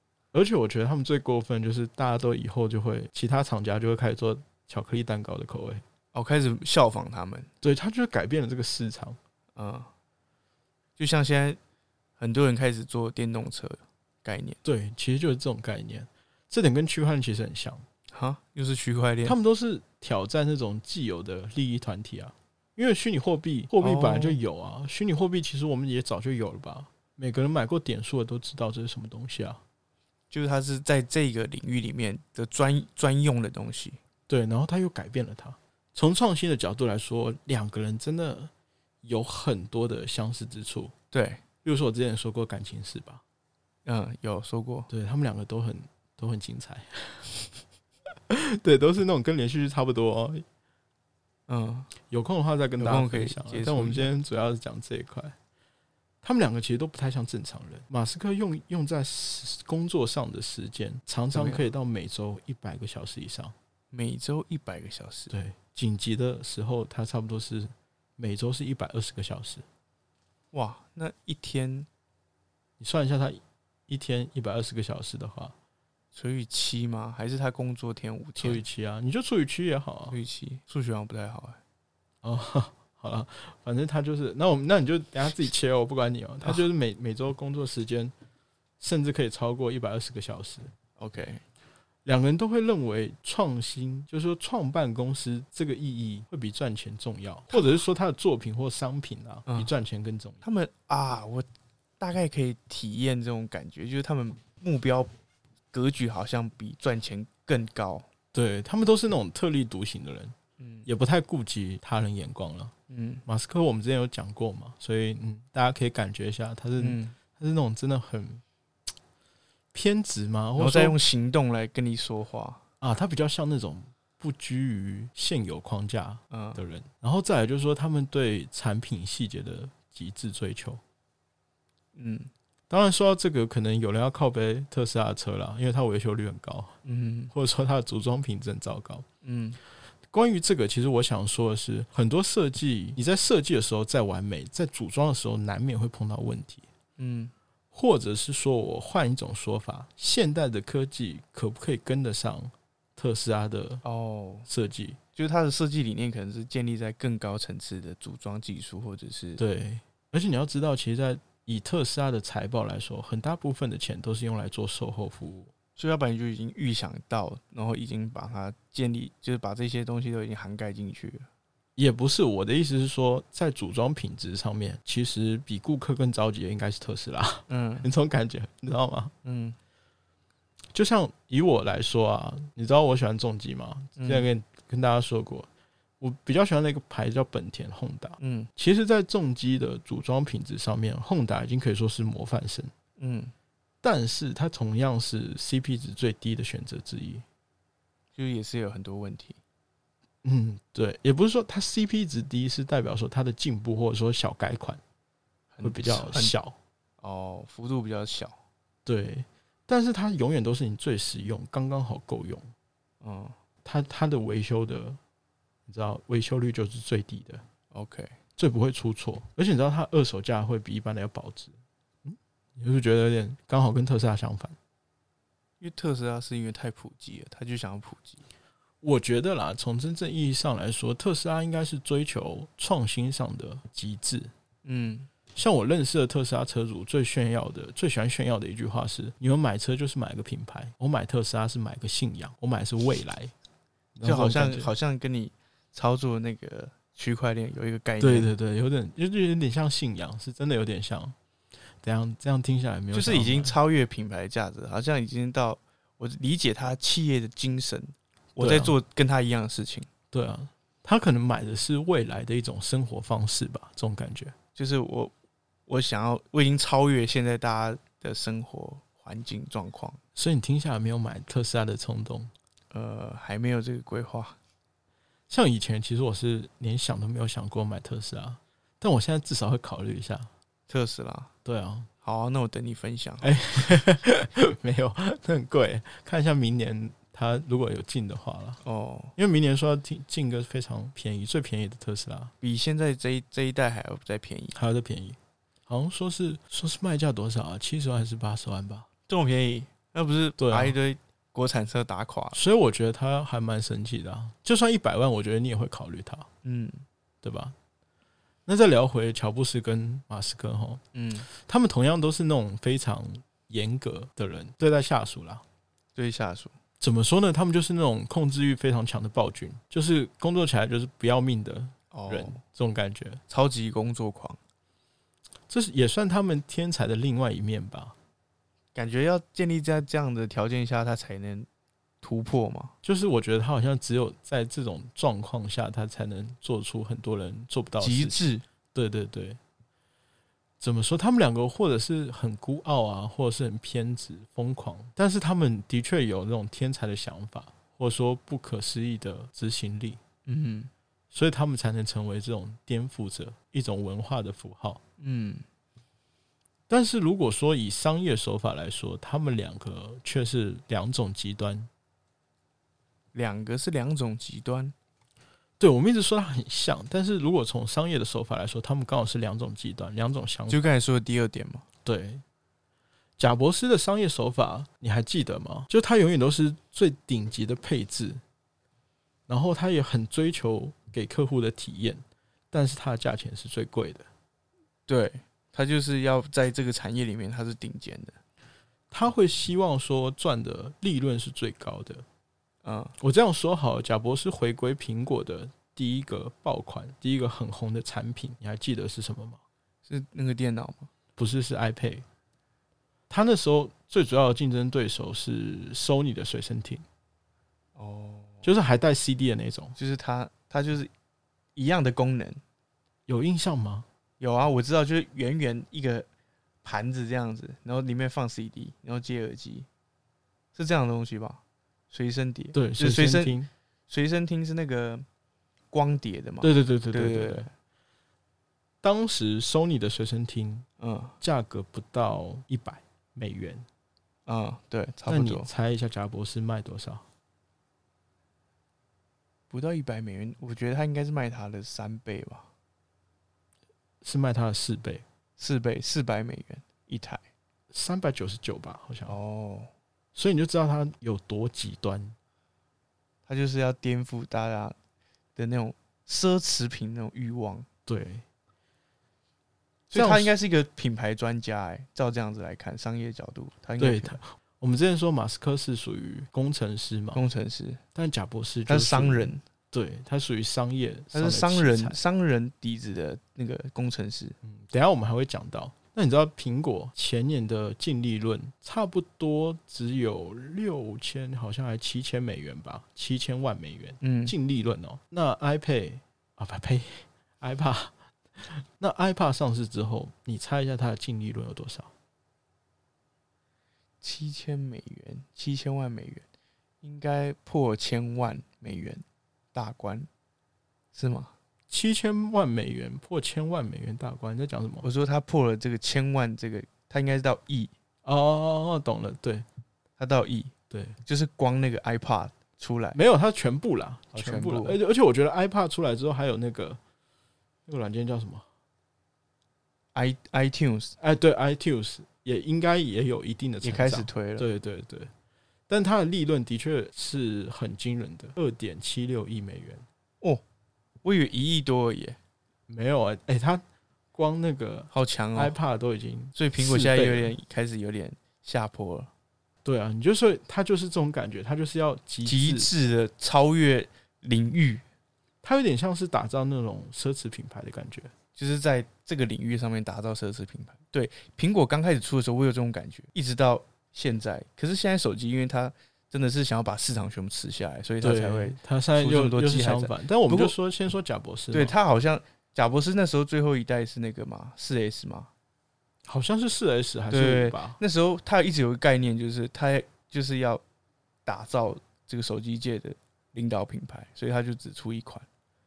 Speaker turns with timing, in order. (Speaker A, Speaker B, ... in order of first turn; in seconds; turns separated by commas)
Speaker A: 0.3-5.8, Speaker B: 6.1-7.5, Speaker A: 7.6-9.2, Speaker B: 9.6-9.9, Speaker B: 11.0-11.6, Speaker B: 12.2-14.6, Speaker A: 14.6-17.8, Speaker B: 18.1-19.4, Speaker A: 19.2-29.6, Speaker B: 23.8-24.4, Speaker B: 30.3-34.0, Speaker A: 34.3-38.5, Speaker A: 39.0-40.9, Speaker B: 41.1-41.4, Speaker A: 41.6-43.2, Speaker B: 43.9-44.9, Speaker A: 44.9-47.5, Speaker A: 48.3-50.5, Speaker B: 51.5-51.9, Speaker A: 52.1-55.4, Speaker B: 52.8-54.1, Speaker A: 56.2-63.5, Speaker B: 61.3-61.7, Speaker B: 63.9-65.3, Speaker A: 65.3-69.7, Speaker B: 70.5-71.9, Speaker A: 72.8-75.5, Speaker B: 76.1-78.6, Speaker A: 78.4-80.2, Speaker B: 80.1-81.6, Speaker A: 82.2-88.1, Speaker A: 88.8-90.7, Speaker B: 91.0-91.4, Speaker A: 92.0-100.4, Speaker B: 100.4-101.5, Speaker B: 102.0-105.1, Speaker B: 105.7-108.1, Speaker A: 108.3-112.7, Speaker B: 110.6-110.9, Speaker B: 112.9-113.2, Speaker A: 113.3-118.4, Speaker B: 116.8-117.2, Speaker A: 119.7-121.0, Speaker B: 120.6-122.6, Speaker A: 122.8-130.8, Speaker B: 126.3-126.6, Speaker B: 131.9-132.3, Speaker A: 132.7-136.8, Speaker B: 136.8-137.3, Speaker A: 137.3-139.1, Speaker B: 139.2-139.6, Speaker A: 140.1-146.7, Speaker B: 147.0-147.3, Speaker A: 147.7-153.8, Speaker B: 153.8-154.5, Speaker A: 154.5-155.0, Speaker B: 155.2-159.4, Speaker A: 159.4-165.5, Speaker B: 165.8-171.3, Speaker A: 171.8-179.1, Speaker B: 177.5-177.9, Speaker B: 179.2-179.6, Speaker A: 180.7-185.5, Speaker B: 184.0-184.3, Speaker A: 186.0-192.7, Speaker B: 188.2-188.5, Speaker B: 193.0-193.3, Speaker A: 193.8-197.2, Speaker B: 198.2-199.4, Speaker A: 200.2-204.8, Speaker B: 205.5-206.3, Speaker A: 205.6-206.6, Speaker B: 207.0-208.4, Speaker A: 208.9-212.5, Speaker B: 213.0-213.3, Speaker A: 213.6-215.0, Speaker A: 215.7-217.4, Speaker B: 217.7-218.2, Speaker A: 218.4-224.6, Speaker B: 225.6-228.2, Speaker A: 228.8-234.3, Speaker B: 234.7-235.1, Speaker A: 235.3-243.3, Speaker A: 244.0-244.7, Speaker B: 244.0-248.3, Speaker A: 248.0-251.2, Speaker A: 251.8-253.6, Speaker B: 252.9-259.9, Speaker A: 258.4-258.8, Speaker A: 260.1-264.3, Speaker B: 264.6-265.1, Speaker B: 265.7-270.0, Speaker A: 270.2-272.3, Speaker B: 272.7-274.4, Speaker A: 275.3-280.3, Speaker B: 280.7-281.3, Speaker A: 281.4-281.9, Speaker B: 282.0-283.9, Speaker A: 283.2-288.6, Speaker B: 288.6-289.1, Speaker A: 289.2-292.3, Speaker B: 292.4-294.6, Speaker A: 294.6-298.9, Speaker B: 299.1-302.4, Speaker A: 300.4-300.8, Speaker A: 302.3-306.3, Speaker B: 306.4-306.8, Speaker A: 307.2-307.6, Speaker A: 308.5-315.4, Speaker B: 310.9-311.3, Speaker B: 315.9-316.5, Speaker A: 316.8-323.2, Speaker B: 321.9-322.4, Speaker B: 323.3-324.4, Speaker A: 325.5-327.9, Speaker B: 328.8-331.5, Speaker B: 332.0-332.7, Speaker A: 332.8-338.2, Speaker B: 337.8-338.4, Speaker A: 338.7-339.4, Speaker A: 340.6-350.0, Speaker B: 350.3-350.7, Speaker A: 351.1-354.8, Speaker B: 355.0-355.4, Speaker A: 356.7-361.7, Speaker B: 363.1-364.7, Speaker A: 365.6-370.6, Speaker B: 370.5-371.6, Speaker A: 371.9-372.2, Speaker A: 373.2-378.2, Speaker A: 379.3-384.1, Speaker B: 384.9-388.2, Speaker A: 388.9-392.0, Speaker B: 392.6-392.9, Speaker A: 393.0-399.4, Speaker B: 399.9-400.9, Speaker A: 401.2-402.1, Speaker A: 403.1-406.8, Speaker B: 407.8-408.5, Speaker A: 408.4-409.8, Speaker B: 409.8-410.9, Speaker B: 411.6-412.4, Speaker A: 413.1-413.9, Speaker B: 414.2-416.1, Speaker B: 416.6-419.7, Speaker B: 420.6-423.4, Speaker A: 422.5-423.5, Speaker B: 423.9-425.1, Speaker B: 425.7-427.5, Speaker A: 426.4-427.5, Speaker A: 428.8-430.7, Speaker B: 430.8-431.1, Speaker A: 431.2-433.7, Speaker B: 434.3-435.5, Speaker A: 435.1-437.1, Speaker B: 439.5-442.5, Speaker A: 444.0-445.0, Speaker B: 445.4-447.2, Speaker A: 447.7-449.2, Speaker B: 449.1-449.7, Speaker A: 450.1-452.2, Speaker B: 453.3-454.8, Speaker B: 455.4-457.7, Speaker A: 457.9-458.2, Speaker B: 459.9-464.2, Speaker A: 459.9-460.3, Speaker A: 463.8-467.2, Speaker B: 467.1-467.8, Speaker A: 467.9-472.0, Speaker B: 468.7-469.4, Speaker B: 471.1-474.4, Speaker A: 474.4-491.9, Speaker B: 484.0-484.3, Speaker B: 494.0-496.2, Speaker B: 496.8-500.1, Speaker B: 500.9-501.3, Speaker A: 501.7-504.9, Speaker B: 504.8-507.7, Speaker A: 508.1-509.4, Speaker B: 510.0-510.5, Speaker A: 510.7-511.0, Speaker B: 511.1-513.0, Speaker A: 512.9-516.8, Speaker B: 514.1-514.8, Speaker A: 517.7-518.5, Speaker B: 520.0-520.9, Speaker A: 521.0-525.1, Speaker B: 523.6-524.5, Speaker A: 525.7-529.8, Speaker B: 531.0-532.2, Speaker A: 532.7-537.4, Speaker B: 534.9-535.6, Speaker B: 536.4-539.1, Speaker A: 539.6-542.7, Speaker B: 542.2-544.9, Speaker A: 545.4-548.1, Speaker B: 548.4-560.5, Speaker A: 558.0-561.8, Speaker B: 561.5-565.3, Speaker A: 566.1-567.8, Speaker B: 567.1-570.6, Speaker B: 571.3-575.3